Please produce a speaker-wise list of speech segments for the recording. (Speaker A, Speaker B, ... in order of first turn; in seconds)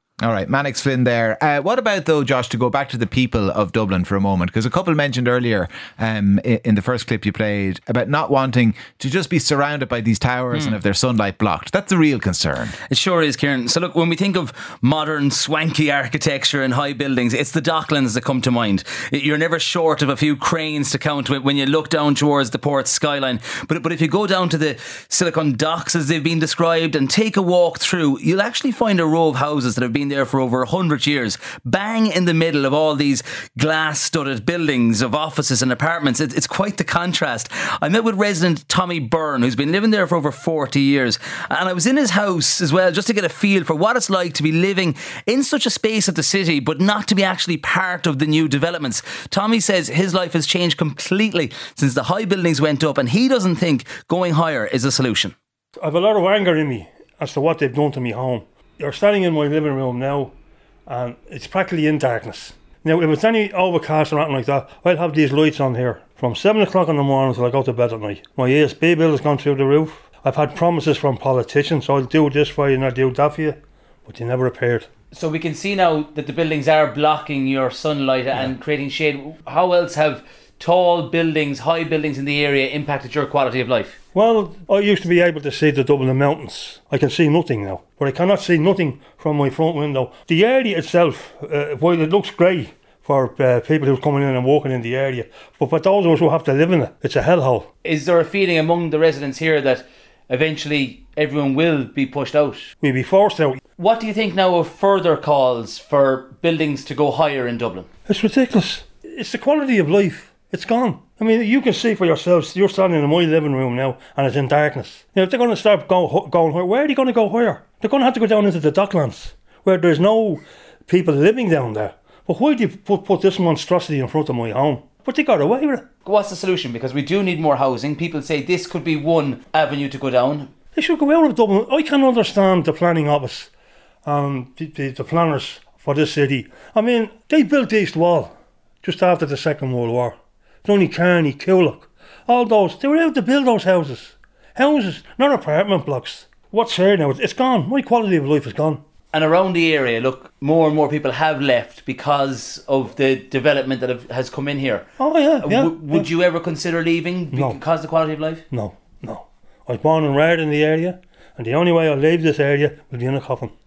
Speaker A: 0.2-12.8
Speaker B: 12.9-55.3, 75.1-84.0, 97.8-102.7, 103.8-107.9, 126.1-130.5, 149.1-154.9, 155.4-158.4
Speaker C: 55.8-60.3, 60.9-74.9, 84.1-97.7, 102.8-103.6, 108.1-125.9, 130.8-133.5, 134.1-148.8, 155.0-156.1, 157.3-157.6, 158.5-163.5